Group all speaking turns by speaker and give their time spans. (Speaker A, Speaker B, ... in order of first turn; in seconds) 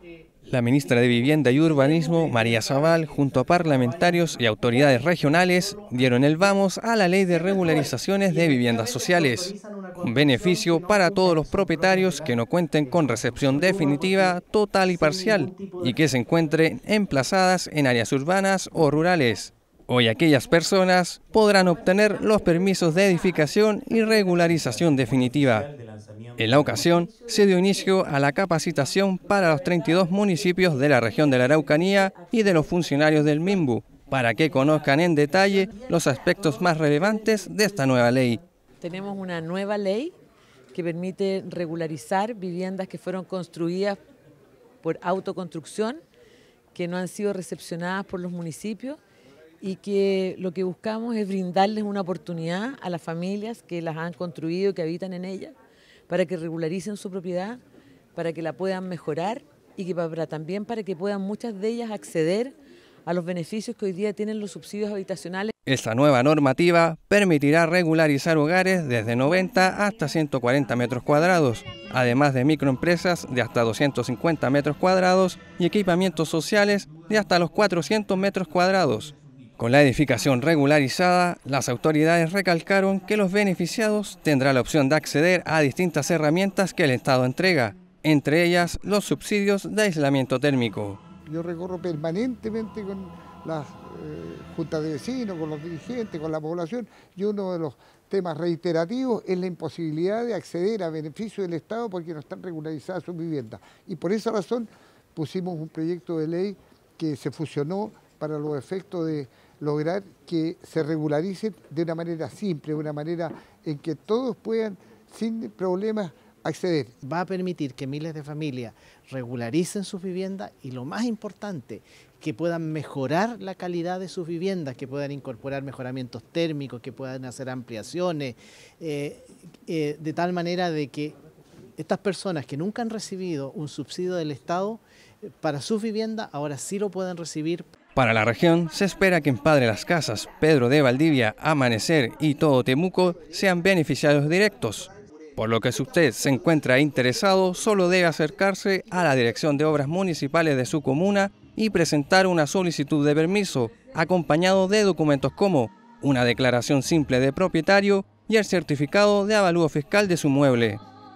Speaker A: 0.5-25.7, 26.4-38.4, 65.7-91.0, 137.9-160.8
Speaker B: 7.5-7.9, 8.4-12.4, 13.0-14.3, 14.9-15.9, 117.0-131.1, 131.8-137.7
Speaker C: 38.8-40.1, 40.7-44.0, 44.8-46.0, 46.7-49.0, 49.6-55.5, 56.1-57.6, 58.1-62.5, 63.1-65.5
Speaker D: 91.3-117.0